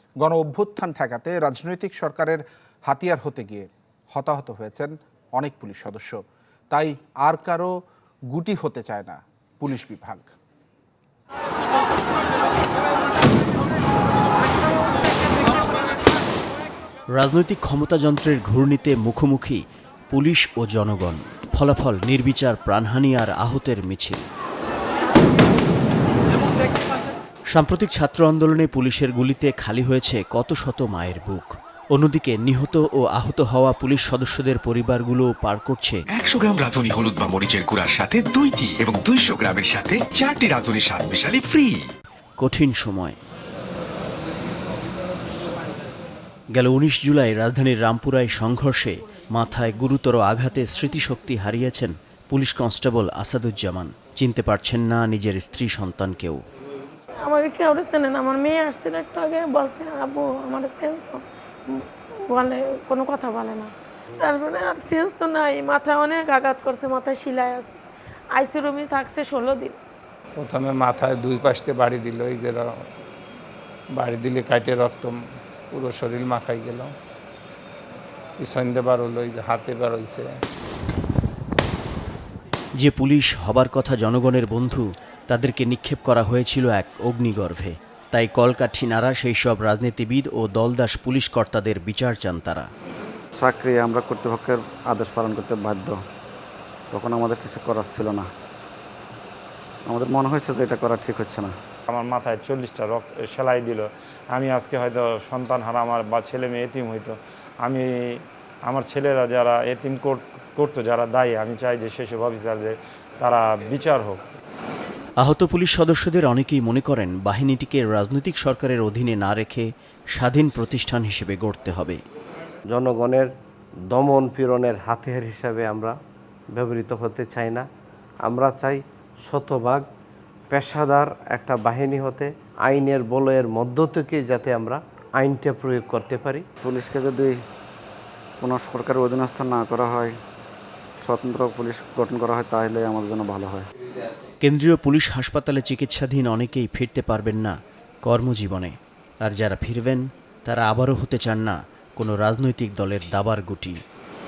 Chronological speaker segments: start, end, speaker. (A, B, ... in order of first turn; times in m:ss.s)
0:00.2-0:06.2 A
0:06.7-0:07.7 A
0:08.3-0:10.3 A
0:17.1-0:24.2 B
0:27.5-0:36.0 B
0:36.1-0:41.9 C
0:42.4-0:43.2 B
0:46.5-0:56.4 B
0:57.2-1:07.8 D
1:08.3-1:09.8 D
1:10.4-1:12.8 E
1:13.9-1:16.9 E
1:18.4-1:20.4 E
1:22.8-1:32.7 B
1:33.4-1:36.0 F
1:36.9-1:38.3 F
1:39.9-1:41.5 F
1:41.9-1:47.8 G
1:48.7-1:54.2 G
1:55.2-2:02.0 B
2:02.7-2:03.3 H
2:03.9-2:06.0 H
2:06.5-2:07.7 H
2:08.2-2:09.8 H
2:10.5-2:16.4 H
2:16.6-2:17.4 F
2:18.4-2:20.2 F
2:21.0-2:23.6 F
2:24.4-2:33.8 B